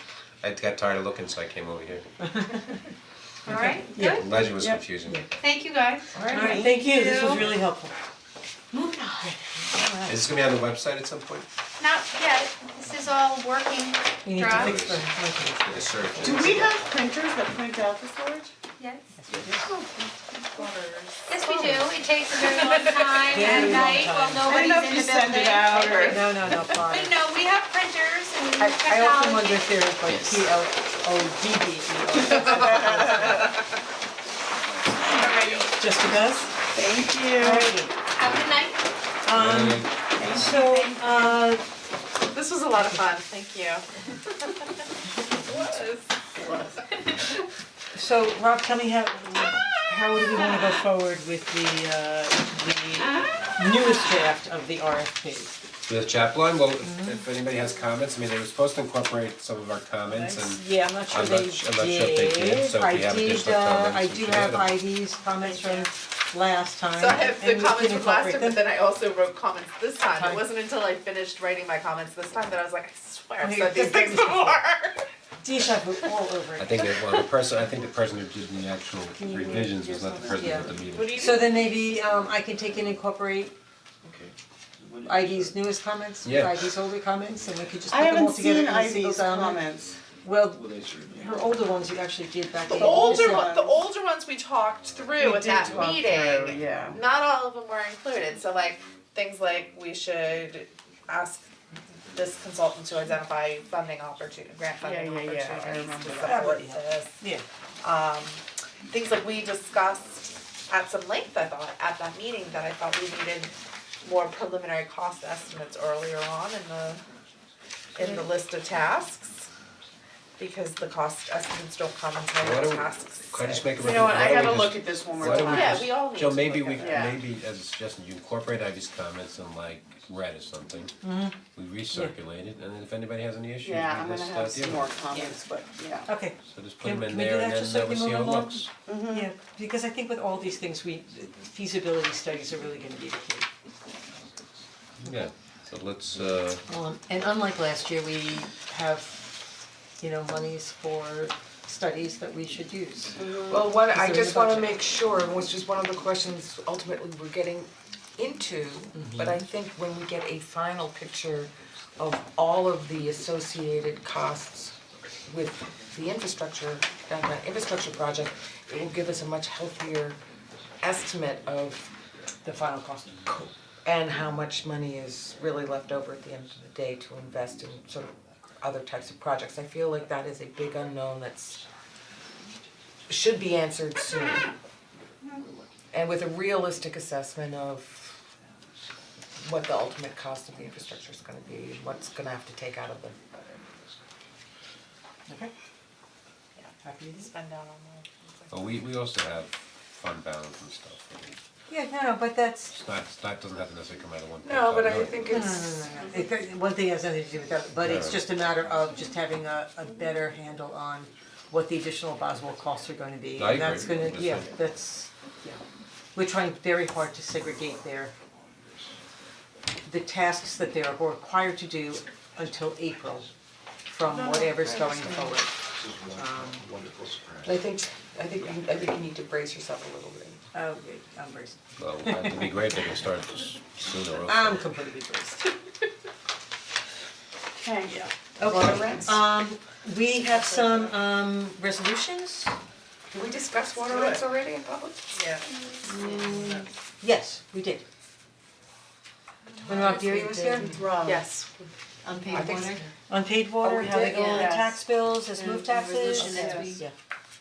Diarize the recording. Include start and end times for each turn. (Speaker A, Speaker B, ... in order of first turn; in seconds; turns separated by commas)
Speaker A: 0.4-2.1, Speaker B: 2.2-2.7, Speaker C: 3.5-4.4, Speaker B: 3.5-4.3, Speaker A: 4.1-5.2, Speaker D: 4.5-4.8, Speaker C: 5.4-7.5, Speaker D: 6.1-6.7, Speaker B: 6.3-7.9, Speaker C: 8.7-9.5, Speaker A: 10.1-11.5, Speaker C: 11.8-14.8, Speaker B: 14.2-16.6, Speaker A: 14.5-16.9, Speaker D: 16.2-18.5, Speaker C: 18.8-19.1, Speaker B: 19.1-19.7, Speaker D: 19.5-20.7, Speaker E: 20.5-23.4, Speaker C: 21.3-26.3, Speaker B: 23.3-24.5, Speaker D: 23.5-23.9, Speaker D: 24.4-26.5, Speaker B: 26.0-27.2, Speaker C: 26.8-29.7, Speaker B: 28.6-33.6, Speaker D: 32.3-33.5, Speaker E: 32.5-33.5, Speaker E: 35.0-35.8, Speaker B: 35.7-36.5, Speaker D: 36.7-37.7, Speaker B: 37.4-37.9, Speaker C: 38.1-38.8, Speaker B: 39.2-41.6, Speaker A: 39.3-40.5, Speaker D: 40.1-40.5, Speaker C: 40.3-41.3, Speaker E: 42.3-44.7, Speaker E: 45.4-47.2, Speaker B: 47.9-55.5, Speaker A: 55.9-64.8, Speaker B: 56.8-57.2, Speaker B: 60.1-68.6, Speaker E: 65.4-65.9, Speaker E: 66.9-75.0, Speaker B: 70.1-70.4, Speaker B: 73.4-74.6, Speaker B: 75.4-76.8, Speaker A: 76.6-81.4, Speaker B: 79.2-83.5, Speaker B: 85.0-89.6, Speaker A: 86.2-86.7, Speaker D: 87.9-90.0, Speaker B: 90.2-93.5, Speaker A: 90.6-91.2, Speaker E: 92.6-101.5, Speaker D: 92.9-93.8, Speaker D: 95.2-97.0, Speaker E: 102.1-107.2, Speaker D: 104.8-106.6, Speaker B: 106.2-107.4, Speaker E: 107.8-117.0, Speaker E: 117.9-119.5, Speaker E: 120.4-123.7, Speaker A: 122.4-130.9, Speaker D: 123.8-125.9, Speaker E: 125.3-127.1, Speaker D: 126.8-127.2, Speaker B: 131.0-131.4, Speaker A: 131.5-134.9, Speaker D: 133.6-136.1, Speaker B: 135.1-135.4, Speaker B: 136.1-143.5, Speaker A: 136.4-138.7, Speaker D: 138.8-139.3, Speaker A: 145.0-146.6, Speaker B: 146.7-153.2, Speaker D: 153.2-153.8, Speaker F: 153.4-170.2, Speaker B: 153.9-154.7, Speaker B: 158.9-159.3, Speaker F: 170.8-171.9, Speaker B: 172.4-173.4, Speaker F: 173.3-181.6, Speaker F: 183.1-184.5, Speaker F: 185.9-188.2, Speaker F: 189.4-193.2, Speaker B: 195.3-195.5, Speaker E: 196.6-198.8, Speaker B: 196.8-197.3, Speaker A: 198.5-201.3, Speaker B: 201.7-202.8, Speaker A: 202.7-205.4, Speaker F: 204.4-205.9, Speaker B: 205.3-215.6, Speaker A: 207.8-208.2, Speaker A: 213.3-214.5, Speaker B: 216.1-218.1, Speaker B: 219.8-223.3, Speaker B: 223.9-226.6, Speaker F: 224.1-225.0, Speaker A: 225.8-227.4, Speaker F: 227.4-230.4, Speaker B: 230.5-232.4, Speaker A: 231.8-234.7, Speaker B: 234.2-235.4, Speaker D: 237.6-239.1, Speaker B: 237.9-242.5, Speaker F: 238.4-239.2, Speaker E: 240.3-240.7, Speaker F: 243.1-245.0, Speaker E: 243.9-244.2, Speaker B: 245.8-247.8, Speaker E: 245.9-246.5, Speaker E: 249.6-250.0, Speaker B: 249.7-250.7, Speaker D: 250.5-251.3, Speaker E: 251.0-251.7, Speaker D: 252.1-252.4, Speaker F: 252.3-252.9, Speaker E: 252.4-252.7, Speaker B: 253.1-256.9, Speaker C: 253.8-254.5, Speaker D: 253.9-256.8, Speaker E: 256.2-256.5, Speaker C: 256.4-256.8